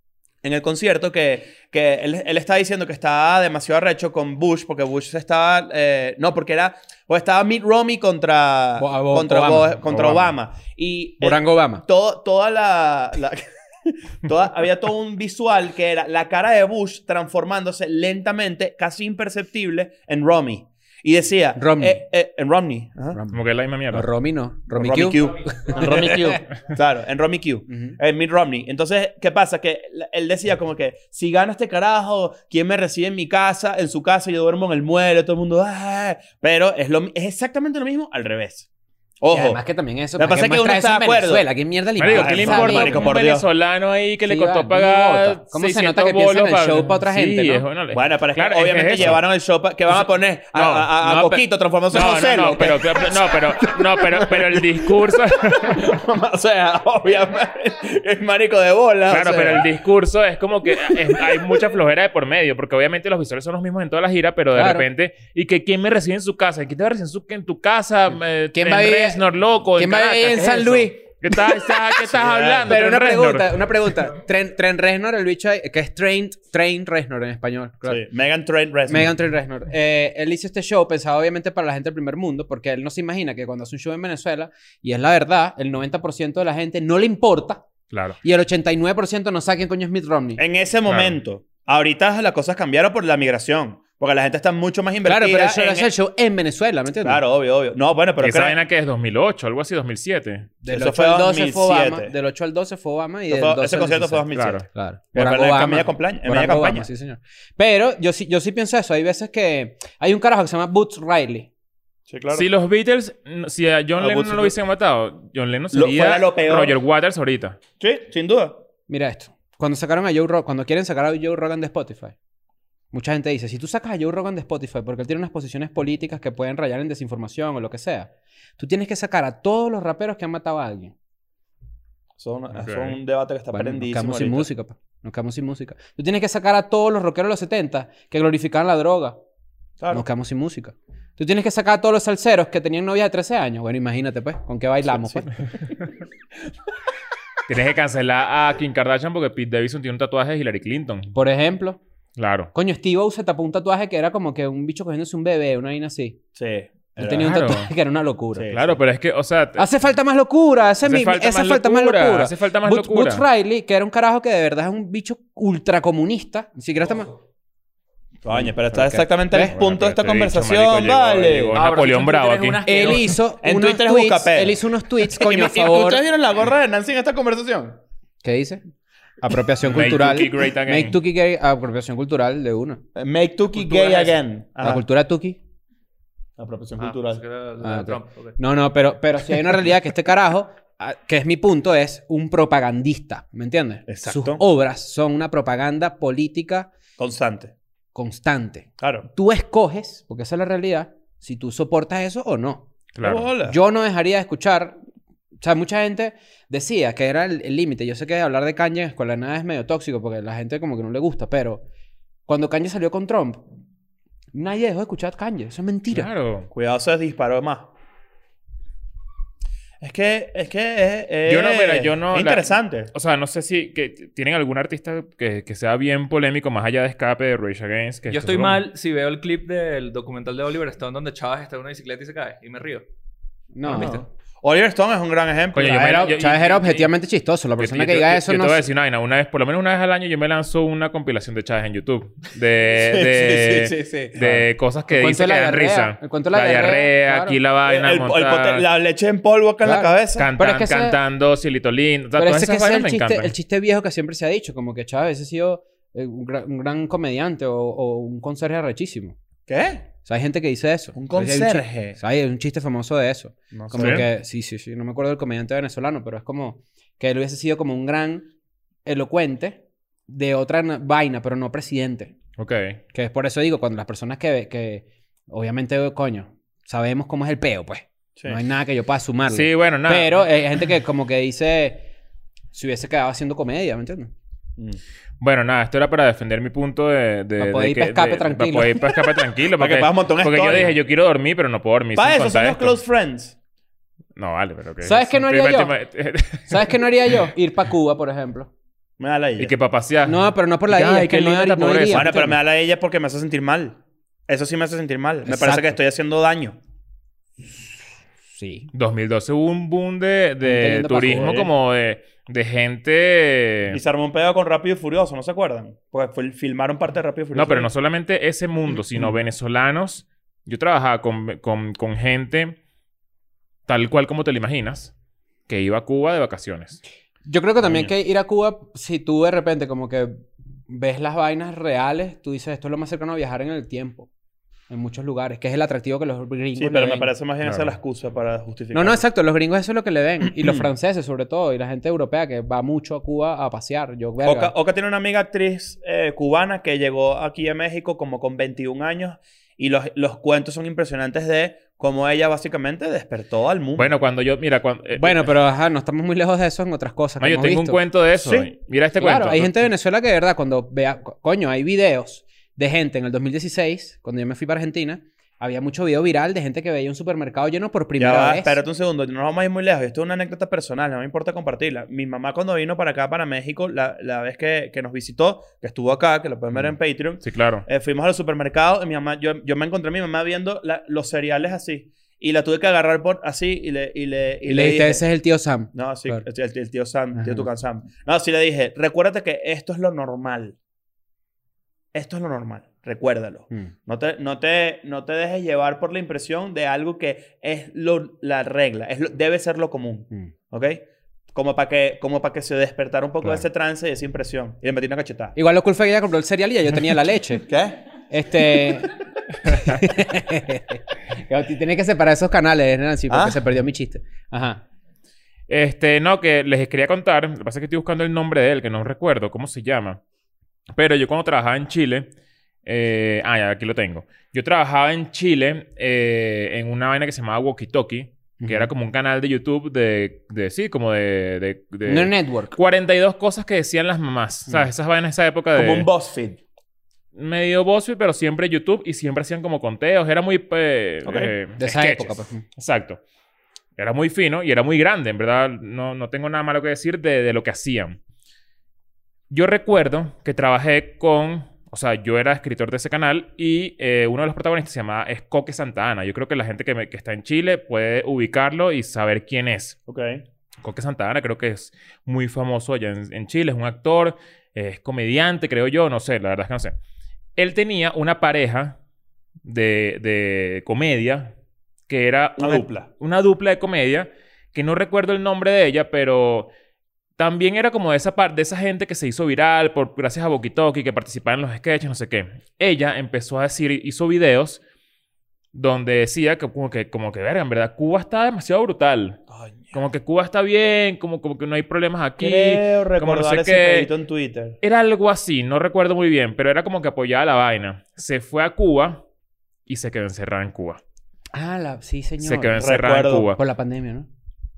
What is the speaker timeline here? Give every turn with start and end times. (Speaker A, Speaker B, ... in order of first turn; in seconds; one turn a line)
Speaker A: 0.4-23.2
Speaker B: 8.8-10.2
Speaker B: 11.2-11.8
Speaker B: 21.6-22.0
Speaker B: 23.1-26.4
Speaker C: 23.3-24.1
Speaker A: 24.7-38.7
Speaker B: 27.7-28.0
Speaker A: 39.2-39.6
Speaker B: 39.3-43.1
Speaker A: 40.2-41.5
Speaker C: 42.0-49.2
Speaker A: 42.1-43.5
Speaker B: 44.3-47.6
Speaker A: 47.9-59.7
Speaker C: 50.5-50.9
Speaker B: 51.0-51.4
Speaker C: 51.9-55.9
Speaker C: 59.1-73.6
Speaker A: 60.8-61.5
Speaker B: 64.5-64.9
Speaker B: 68.5-69.2
Speaker B: 69.8-71.8
Speaker A: 72.1-72.8
Speaker B: 72.7-78.0
Speaker A: 77.9-79.1
Speaker B: 78.9-87.6
Speaker C: 87.9-88.2
Speaker B: 88.2-90.4
Speaker A: 90.4-95.9
Speaker C: 90.9-91.2
Speaker B: 95.0-97.2
Speaker A: 97.0-98.6
Speaker C: 98.2-100.5
Speaker B: 100.6-111.5
Speaker A: 100.7-102.1
Speaker A: 103.3-106.9
Speaker C: 104.3-104.7
Speaker A: 112.1-112.5
Speaker C: 112.3-117.6
Speaker A: 114.0-114.6
Speaker A: 115.7-116.8
Speaker A: 117.8-118.6
Speaker B: 118.9-122.1
Speaker B: 122.9-130.9
Speaker A: 132.2-134.5
Speaker C: 132.5-133.0
Speaker B: 133.5-139.2
Speaker A: 139.8-140.1
Speaker B: 139.9-145.3
Speaker A: 144.9-145.3
Speaker C: 147.5-151.1
Speaker B: 151.1-151.8
Speaker C: 152.2-152.5
Speaker B: 152.5-156.2
Speaker A: 156.3-157.3
Speaker B: 157.0-158.5
Speaker C: 157.1-157.7
Speaker A: 158.3-158.8
Speaker C: 158.5-159.7
Speaker B: 159.6-167.1
Speaker C: 160.8-163.2
Speaker A: 168.2-171.6
Speaker B: 168.3-169.6
Speaker C: 169.5-172.6
Speaker D: 171.6-173.2
Speaker B: 172.7-176.0
Speaker A: 173.4-177.8
Speaker B: 178.2-178.6
Speaker B: 179.2-182.8
Speaker C: 179.6-181.0
Speaker A: 183.0-184.8
Speaker D: 183.6-184.1
Speaker B: 184.6-185.4
Speaker A: 186.4-187.2
Speaker D: 186.8-188.4
Speaker B: 187.6-196.7
Speaker A: 193.9-194.4
Speaker A: 197.0-197.5
Speaker B: 197.9-202.7
Speaker A: 198.8-199.1
Speaker C: 202.9-203.3
Speaker A: 203.0-203.6
Speaker B: 203.4-204.8
Speaker B: 205.4-211.6
Speaker B: 212.3-213.4
Speaker B: 214.3-216.1
Speaker C: 215.9-216.5
Speaker A: 216.5-217.7
Speaker A: 219.8-222.9
Speaker C: 221.3-228.6
Speaker D: 228.1-232.8
Speaker B: 233.5-234.0
Speaker A: 233.7-236.2
Speaker D: 233.7-234.0
Speaker C: 235.5-236.9
Speaker B: 235.8-238.7
Speaker C: 237.6-248.6
Speaker A: 242.7-244.4
Speaker B: 244.9-247.4
Speaker A: 247.7-250.3
Speaker B: 249.6-251.0
Speaker C: 250.2-253.3
Speaker B: 252.2-259.2
Speaker A: 259.5-259.8
Speaker B: 260.1-268.3
Speaker A: 260.9-262.0
Speaker A: 263.5-264.1
Speaker C: 263.8-264.1
Speaker B: 268.9-272.1
Speaker C: 272.4-272.8
Speaker B: 272.9-281.9
Speaker C: 279.3-280.3
Speaker B: 282.5-284.1
Speaker C: 285.2-292.8
Speaker B: 287.4-288.9
Speaker A: 289.6-290.8
Speaker A: 291.9-293.4
Speaker C: 294.2-297.2
Speaker B: 294.8-295.7
Speaker B: 296.5-298.5
Speaker A: 299.0-299.5
Speaker C: 299.4-302.2
Speaker B: 300.1-302.4
Speaker A: 301.9-306.6
Speaker B: 305.2-305.8
Speaker B: 308.3-308.7
Speaker C: 308.7-313.8
Speaker B: 310.4-311.4
Speaker A: 311.1-311.5
Speaker A: 313.7-317.7
Speaker C: 317.3-322.6
Speaker C: 323.7-324.9
Speaker C: 325.5-326.8
Speaker B: 327.3-334.1
Speaker A: 327.6-327.9
Speaker B: 334.7-337.1
Speaker A: 336.6-339.0
Speaker C: 337.4-337.7
Speaker B: 338.7-344.5
Speaker A: 340.4-340.7
Speaker A: 344.2-353.9
Speaker C: 353.8-355.4
Speaker B: 355.0-357.8
Speaker C: 357.2-359.7
Speaker A: 358.2-358.5
Speaker B: 359.0-368.6
Speaker A: 368.0-385.0
Speaker C: 377.2-377.6
Speaker B: 384.5-386.2
Speaker A: 385.7-390.6
Speaker B: 387.2-387.5
Speaker A: 391.9-405.4
Speaker B: 405.4-407.5
Speaker A: 407.5-407.8
Speaker B: 408.1-414.6
Speaker A: 413.1-413.4
Speaker C: 415.5-420.0
Speaker C: 420.7-422.1
Speaker C: 422.6-435.9
Speaker B: 428.4-428.7
Speaker B: 431.9-432.6
Speaker A: 435.5-436.4
Speaker C: 437.1-443.0
Speaker A: 441.1-441.3
Speaker B: 441.6-442.4
Speaker C: 443.8-448.0
Speaker C: 449.3-459.8
Speaker A: 459.9-460.2
Speaker C: 460.6-466.7
Speaker C: 467.4-468.8
Speaker C: 469.4-471.3
Speaker C: 471.9-476.5
Speaker A: 472.4-472.9
Speaker C: 477.2-484.6
Speaker C: 485.5-489.2
Speaker A: 489.3-489.8
Speaker C: 489.7-493.9
Speaker A: 492.2-494.6
Speaker C: 494.6-499.0
Speaker C: 499.7-500.8
Speaker B: 501.3-502.6
Speaker C: 502.2-503.4
Speaker A: 502.6-503.3
Speaker B: 503.4-504.1